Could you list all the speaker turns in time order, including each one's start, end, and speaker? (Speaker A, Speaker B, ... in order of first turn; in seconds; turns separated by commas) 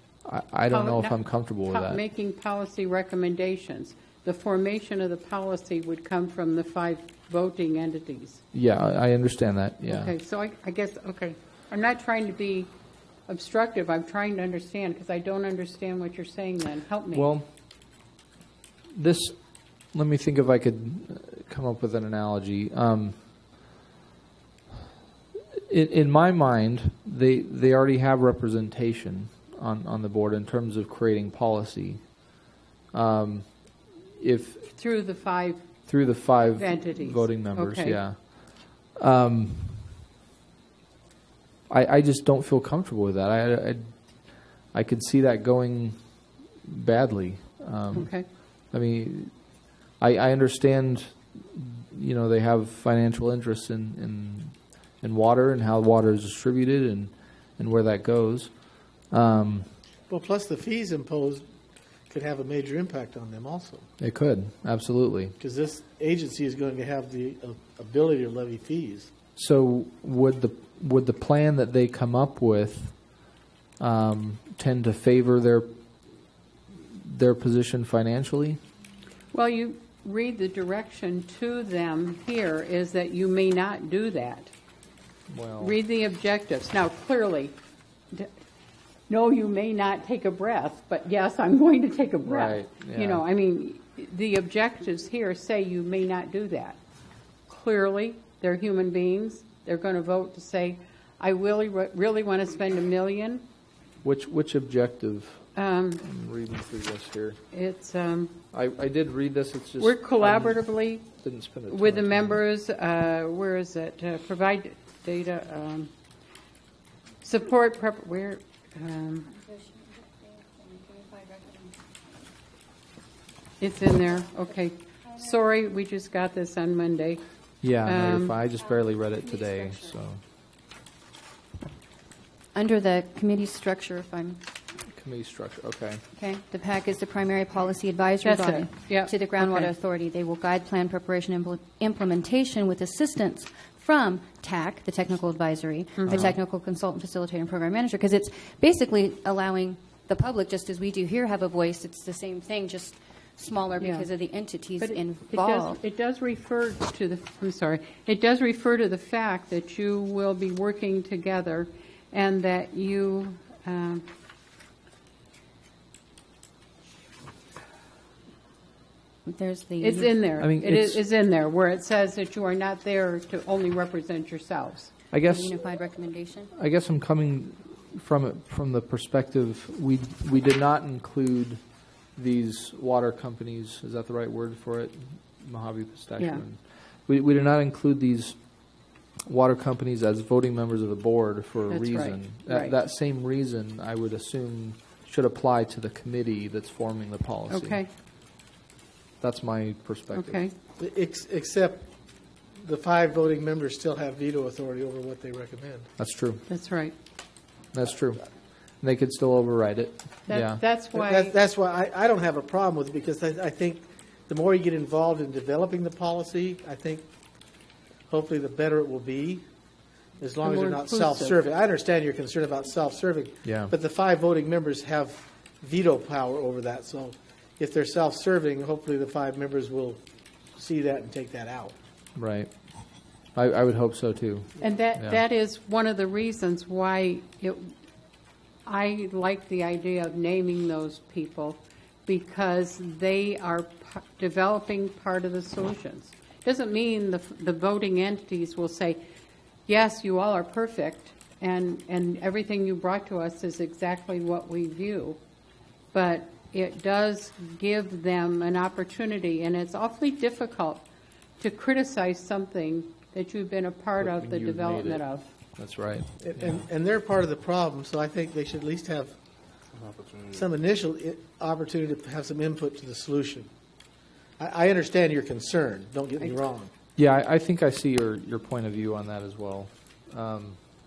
Speaker A: 0.2-2.0, Speaker B: 0.7-8.4, Speaker A: 8.5-10.1, Speaker B: 9.9-12.7, Speaker B: 13.3-17.3, Speaker A: 17.1-17.5, Speaker A: 18.9-19.4, Speaker A: 19.9-23.2, Speaker A: 25.7-32.1, Speaker A: 32.9-34.7, Speaker B: 34.8-35.7, Speaker A: 35.9-39.9, Speaker B: 36.5-38.0, Speaker A: 41.7-43.9, Speaker A: 44.6-46.0, Speaker A: 46.6-48.1, Speaker B: 47.9-48.2, Speaker A: 48.7-49.3, Speaker A: 50.0-58.5, Speaker A: 59.1-59.7, Speaker C: 60.1-61.4, Speaker C: 62.1-63.9, Speaker A: 64.0-65.3, Speaker C: 65.4-69.1, Speaker A: 69.3-73.0, Speaker A: 73.8-75.7, Speaker A: 77.0-78.6, Speaker B: 79.3-84.5, Speaker A: 85.3-85.8, Speaker B: 85.6-87.6, Speaker B: 89.1-96.8, Speaker A: 92.2-93.2, Speaker B: 97.5-103.4, Speaker A: 104.0-105.4, Speaker B: 105.5-106.0, Speaker A: 106.0-107.4, Speaker B: 107.5-108.4, Speaker A: 108.5-112.4, Speaker B: 109.8-111.1, Speaker B: 111.7-115.9, Speaker B: 117.2-119.4, Speaker D: 120.7-121.6, Speaker B: 123.6-127.2, Speaker A: 127.6-130.2, Speaker B: 127.8-128.4, Speaker D: 129.4-129.7, Speaker D: 132.5-134.4, Speaker A: 134.9-136.0, Speaker D: 136.1-155.8, Speaker B: 138.2-139.7, Speaker B: 146.0-146.3, Speaker B: 153.8-154.1, Speaker B: 154.8-164.1, Speaker D: 169.2-170.2, Speaker B: 169.8-174.9, Speaker A: 170.4-171.0, Speaker A: 175.1-175.6, Speaker D: 175.2-176.5, Speaker A: 176.5-181.6, Speaker A: 182.2-188.4, Speaker A: 189.2-197.8, Speaker B: 191.7-192.8, Speaker B: 197.5-197.9, Speaker A: 199.2-200.4, Speaker B: 200.1-200.5, Speaker C: 200.8-201.9, Speaker C: 202.6-205.9, Speaker A: 206.0-206.4, Speaker B: 206.5-206.9, Speaker A: 207.7-208.2, Speaker A: 208.8-210.6, Speaker B: 210.3-211.3, Speaker C: 210.9-217.1, Speaker C: 218.1-219.4, Speaker C: 220.2-230.0, Speaker B: 220.4-221.4, Speaker A: 223.4-223.7, Speaker C: 230.6-231.7, Speaker A: 232.2-232.5, Speaker A: 233.3-235.2, Speaker B: 234.6-237.7, Speaker B: 238.6-249.0, Speaker B: 249.7-255.2, Speaker B: 255.9-260.9, Speaker B: 261.4-265.3, Speaker A: 264.0-265.0, Speaker A: 265.6-266.6, Speaker C: 266.2-269.1, Speaker C: 270.3-273.5, Speaker C: 274.4-276.7, Speaker A: 277.0-280.6